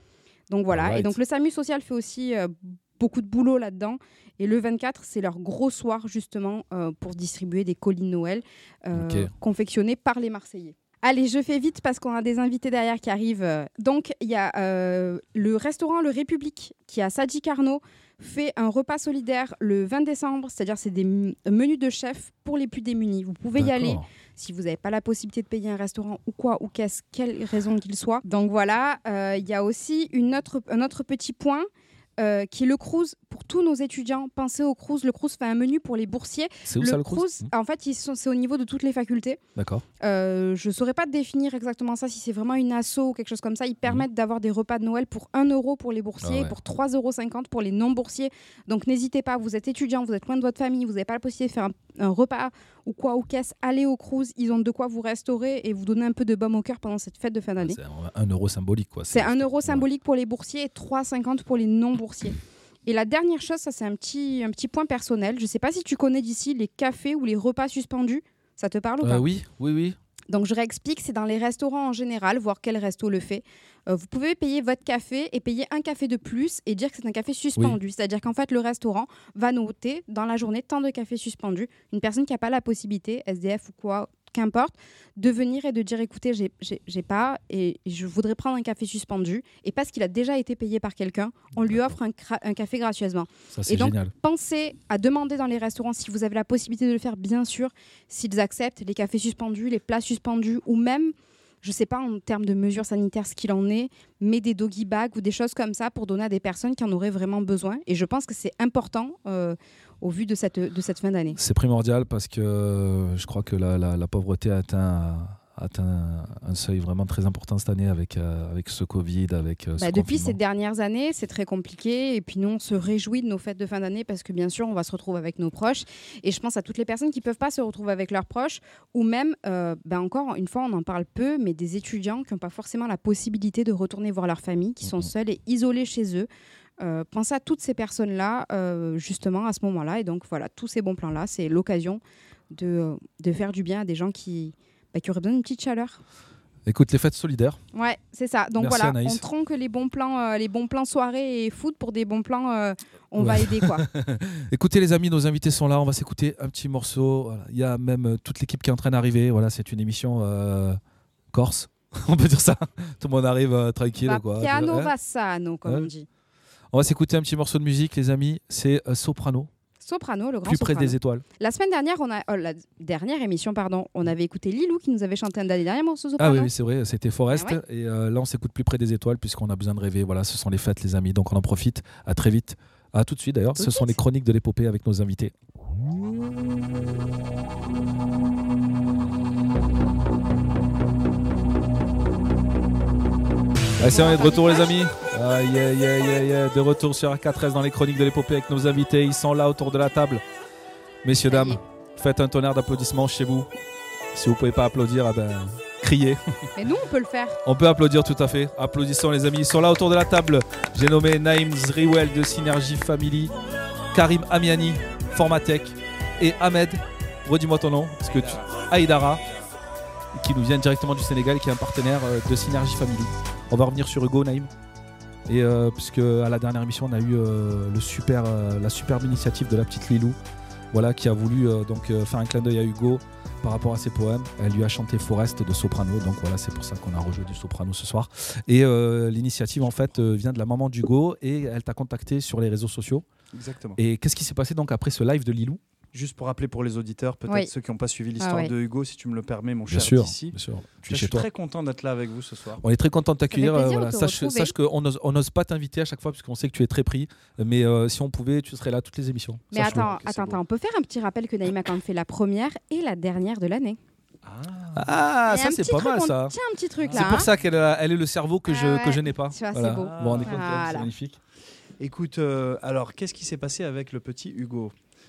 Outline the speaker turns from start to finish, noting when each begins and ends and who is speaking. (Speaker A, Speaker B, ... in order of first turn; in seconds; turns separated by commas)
Speaker A: 0.5-31.7, Speaker B: 0.7-1.1, Speaker B: 8.9-9.3, Speaker B: 23.6-24.0, Speaker A: 32.2-39.4, Speaker B: 36.6-37.5, Speaker B: 39.5-39.8, Speaker A: 40.0-57.8, Speaker B: 46.2-46.5, Speaker B: 57.6-59.9, Speaker A: 59.1-69.2, Speaker B: 69.0-70.0, Speaker A: 70.3-111.4, Speaker B: 93.5-94.1, Speaker B: 111.3-120.4, Speaker A: 119.8-136.3, Speaker B: 134.8-135.1, Speaker A: 136.8-146.0, Speaker B: 146.7-147.6, Speaker A: 147.7-153.8, Speaker B: 148.6-149.2, Speaker B: 153.2-160.8, Speaker B: 161.3-164.9, Speaker A: 164.0-166.1, Speaker B: 166.7-169.5, Speaker A: 169.8-176.5, Speaker B: 170.4-171.2, Speaker B: 176.2-185.3, Speaker A: 177.3-177.6, Speaker A: 183.6-184.0, Speaker B: 193.8-200.2, Speaker A: 193.8-194.7, Speaker B: 201.0-203.5, Speaker A: 201.3-201.6, Speaker B: 204.1-206.2, Speaker A: 206.6-207.4, Speaker B: 207.4-213.3, Speaker B: 213.9-219.2, Speaker B: 220.2-224.5, Speaker B: 225.3-230.2, Speaker B: 230.7-243.0, Speaker C: 239.6-240.0, Speaker C: 243.3-243.8, Speaker B: 243.8-245.6, Speaker C: 245.9-252.6, Speaker A: 248.2-248.5, Speaker B: 249.7-251.3, Speaker B: 252.6-259.9, Speaker A: 253.3-254.5, Speaker A: 259.5-263.8, Speaker C: 259.6-260.4, Speaker C: 264.2-264.9, Speaker B: 264.7-266.4, Speaker A: 265.3-267.3, Speaker C: 266.8-267.4, Speaker B: 266.9-271.2, Speaker A: 268.5-270.9, Speaker C: 269.8-270.8, Speaker C: 271.8-274.7